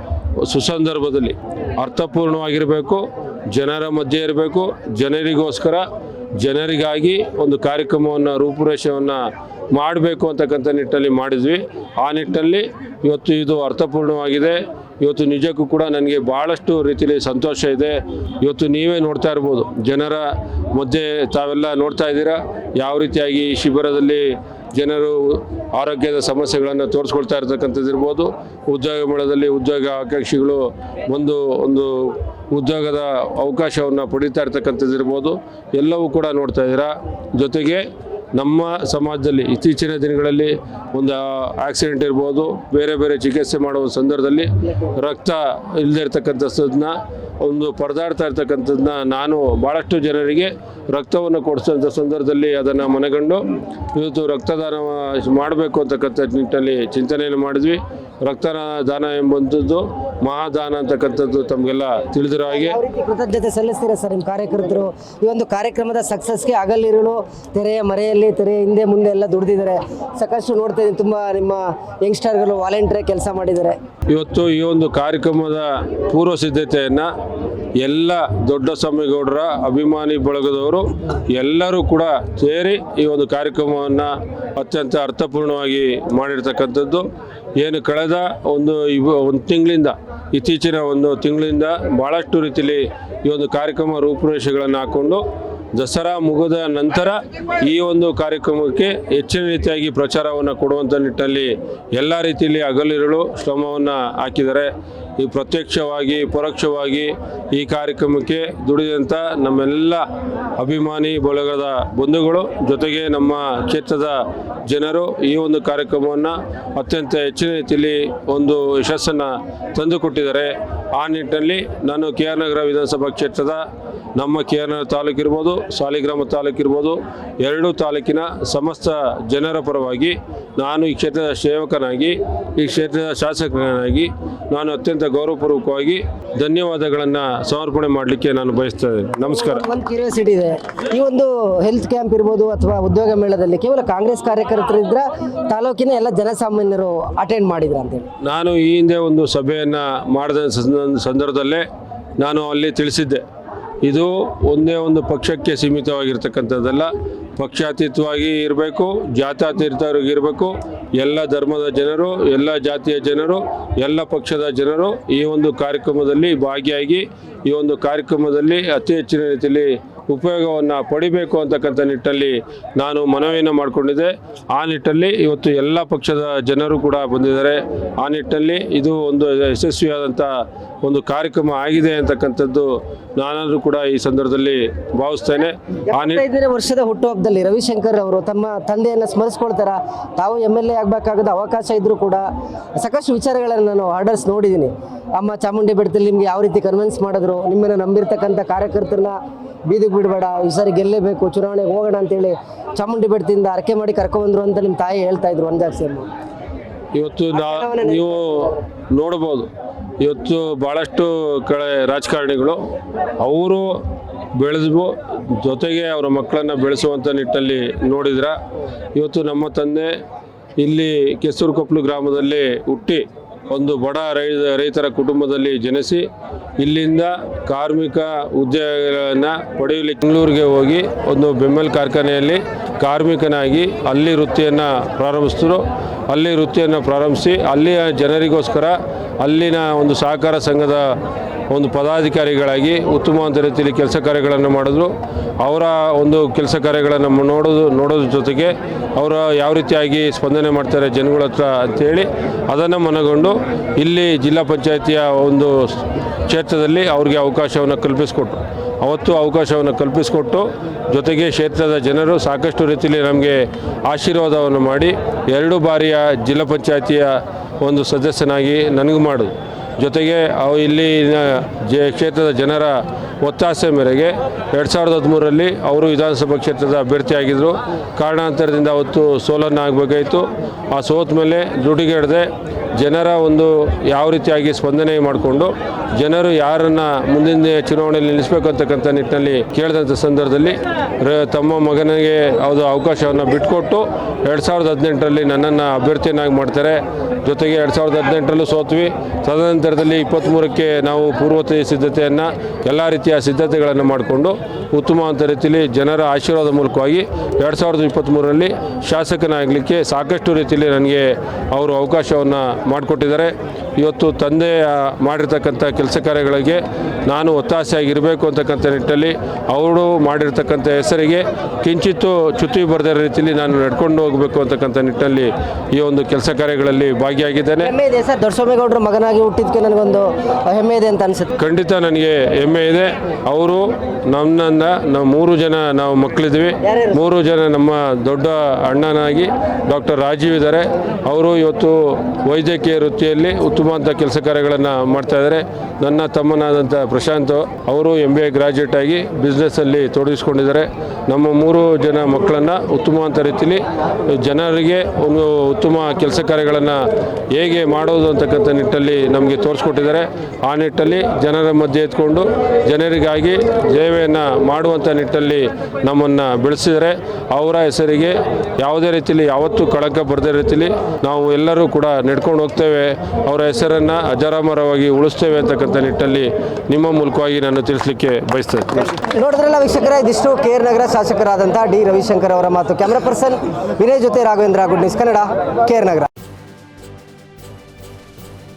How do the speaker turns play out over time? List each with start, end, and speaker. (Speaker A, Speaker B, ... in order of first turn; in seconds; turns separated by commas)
Speaker A: 0.4-5.8, Speaker A: 6.4-9.2, Speaker A: 9.7-53.4, Speaker A: 53.9-62.8, Speaker B: 62.5-73.8, Speaker A: 74.1-77.1, Speaker A: 77.8-95.2, Speaker A: 95.8-110.0, Speaker A: 110.6-123.6, Speaker A: 124.2-139.7, Speaker B: 139.3-148.1, Speaker A: 148.2-151.7, Speaker A: 152.2-153.2, Speaker A: 153.8-180.3, Speaker A: 180.8-186.2, Speaker B: 185.9-192.2, Speaker B: 192.8-199.2, Speaker B: 199.7-206.1, Speaker A: 206.9-209.5, Speaker B: 207.3-208.4, Speaker A: 210.0-212.6, Speaker A: 213.2-213.7, Speaker A: 214.3-218.4, Speaker A: 218.9-219.9, Speaker A: 220.6-226.1, Speaker A: 226.6-241.0, Speaker A: 241.5-327.7, Speaker B: 327.6-331.4, Speaker A: 331.4-356.8, Speaker B: 336.7-337.0, Speaker A: 357.3-379.0, Speaker B: 378.9-386.1